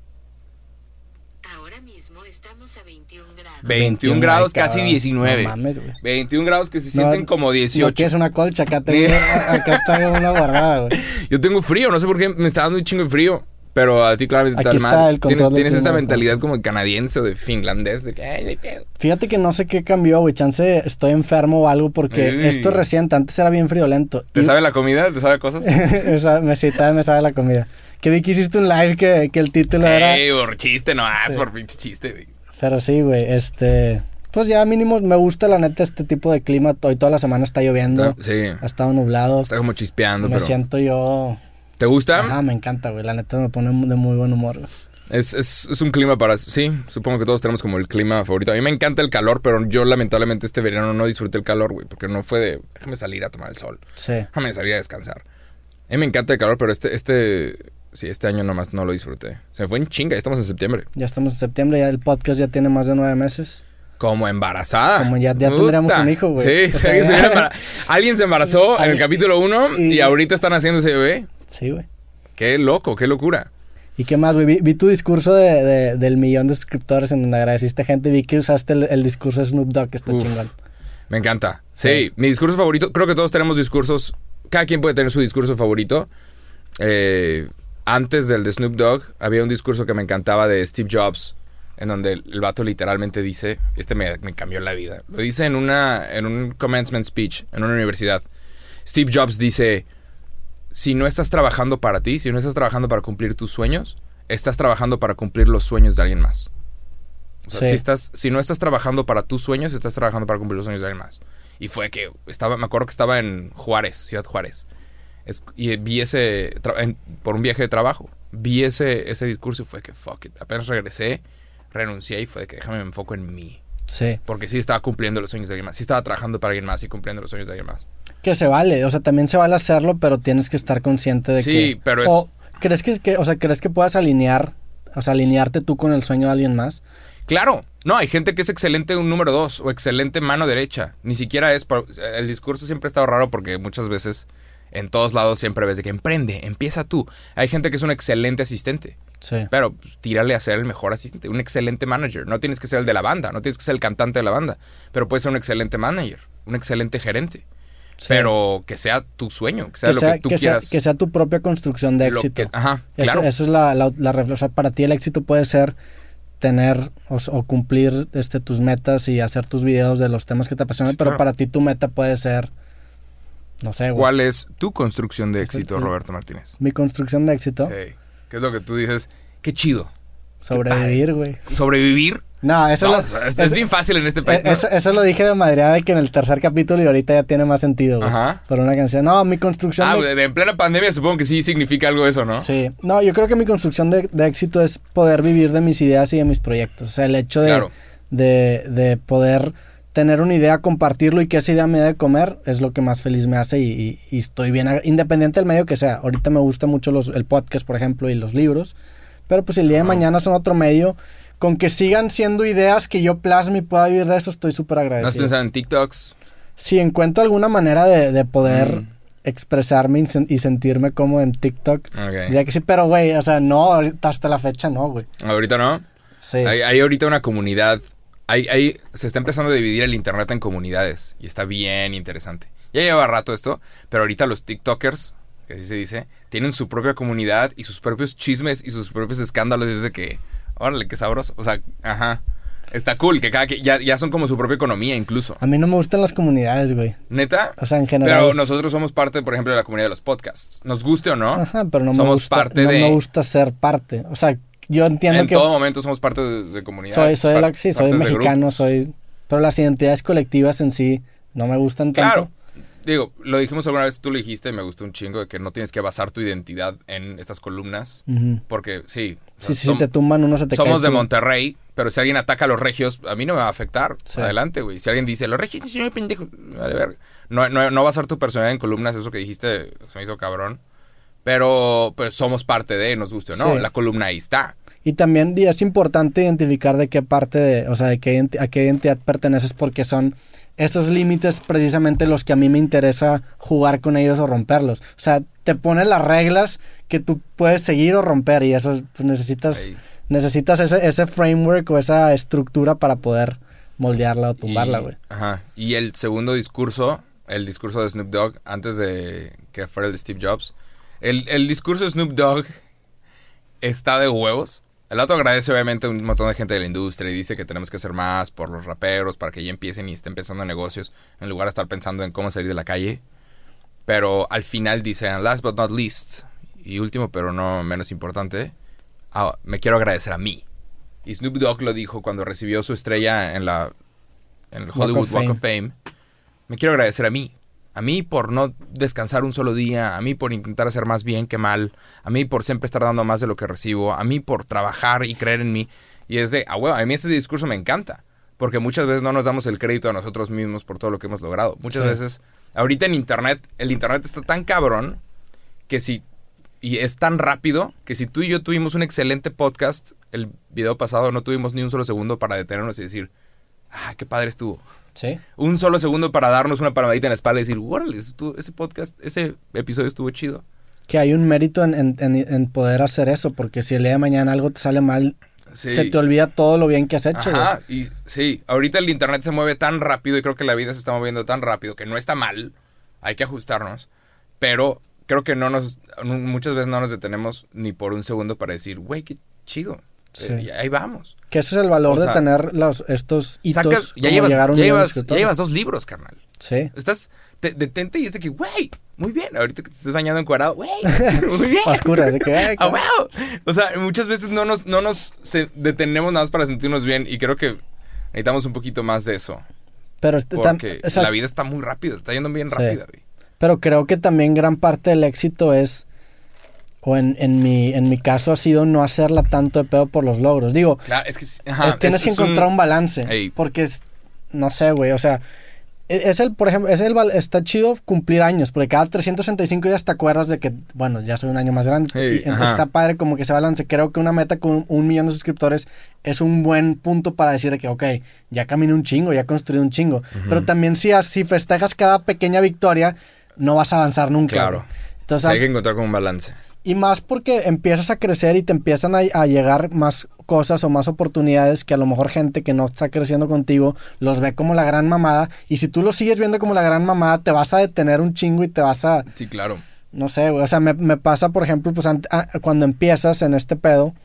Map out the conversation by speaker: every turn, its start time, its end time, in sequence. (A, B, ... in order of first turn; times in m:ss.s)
0:01.4-0:03.8 A
0:03.6-0:08.1 B
0:03.7-0:06.0 C
0:06.9-0:11.0 C
0:08.8-0:10.4 B
0:10.9-0:18.8 B
0:14.5-0:16.4 C
0:19.0-0:24.5 C
0:22.1-0:22.8 B
0:24.3-0:25.8 B
0:25.6-0:30.2 C
0:29.8-0:32.3 B
0:32.6-0:39.5 C
0:37.9-0:38.6 B
0:39.5-0:40.5 B
0:40.2-0:41.4 C
0:41.8-0:42.4 B
0:42.2-0:44.7 C
0:45.1-0:53.8 B
0:54.0-0:54.3 C
0:54.3-0:55.2 B
0:55.9-1:00.9 B
1:00.9-1:03.6 C
1:04.0-1:11.3 B
1:05.0-1:07.5 C
1:08.7-1:09.1 C
1:09.7-1:10.1 C
1:11.5-1:11.8 C
1:12.4-1:13.5 B
1:14.0-1:20.5 C
1:20.1-1:20.5 B
1:21.1-1:26.1 B
1:21.8-1:22.0 C
1:26.8-1:38.2 B
1:38.8-1:39.8 B
1:40.7-1:46.5 B
1:47.4-1:54.6 B
1:47.5-1:47.8 C
1:55.2-2:01.2 B
2:01.7-2:03.6 B
2:03.9-2:04.2 C
2:04.2-2:07.8 B
2:08.2-2:16.8 C
2:11.4-2:12.2 B
2:17.3-2:29.0 B
2:29.2-2:29.5 C
2:29.5-2:37.4 B
2:38.0-2:38.3 C
2:38.1-2:40.8 B
2:39.8-2:45.8 C
2:42.0-2:43.3 B
2:46.4-2:52.5 C
2:50.8-2:51.2 B
2:53.6-2:54.1 C
2:53.9-2:56.6 B
2:55.4-2:55.9 C
2:56.6-2:57.7 C
2:57.6-2:59.9 B
3:00.4-3:01.4 C
3:00.5-3:02.2 B
3:02.4-3:03.6 C
3:02.8-3:04.6 B
3:04.2-3:10.1 C
3:08.0-3:08.4 B
3:09.8-3:12.5 B
3:12.4-3:28.7 C
3:17.4-3:17.7 B
3:29.3-3:35.3 C
3:35.0-3:36.1 B
3:36.6-3:45.1 C
3:38.4-3:38.9 B
3:41.9-3:42.4 B
3:45.2-3:45.8 B
3:46.2-3:46.5 C
3:46.4-4:05.4 B
4:05.4-4:07.0 C
4:07.1-4:13.0 B
4:07.6-4:08.4 C
4:11.4-4:15.5 C
4:15.1-4:18.7 B
4:16.9-4:22.3 C
4:21.9-4:22.3 B
4:22.8-4:29.9 B
4:28.1-4:28.4 C
4:29.4-4:31.0 C
4:30.5-4:40.6 B
4:41.2-4:44.5 B
4:43.3-4:43.6 C
4:44.8-5:04.9 C
4:59.5-4:59.8 B
5:04.4-5:12.6 B
5:13.6-5:23.0 B
5:23.9-5:28.5 B
5:29.1-5:30.4 B
5:31.0-5:33.7 B
5:34.5-5:35.7 B
5:34.7-5:35.4 C
5:36.5-5:55.0 B
5:55.7-5:56.0 B
5:56.6-6:03.1 B
6:03.7-6:04.6 B
6:05.4-6:10.4 B
6:10.9-6:15.2 C
6:15.5-6:16.0 B
6:15.7-6:17.5 C
6:17.1-6:23.9 B
6:24.4-6:31.1 B
6:30.2-6:30.4 C
6:31.3-6:35.3 C
6:31.9-6:32.2 B
6:33.5-6:36.2 B
6:36.4-6:36.7 C
6:36.7-6:47.6 B
6:40.9-6:42.8 C
6:48.1-6:49.4 B
6:50.0-6:51.1 C
6:50.3-6:53.0 B
6:53.4-6:55.8 C
6:56.8-7:00.8 C
7:00.8-7:02.5 B
7:01.6-7:05.2 C
7:03.0-7:03.3 B
7:05.9-7:25.4 C
7:11.9-7:12.6 B
7:20.2-7:20.4 B
7:24.3-7:24.6 B
7:25.2-7:26.3 B
7:26.6-7:39.1 C
7:39.1-7:39.6 B
7:39.9-7:43.9 C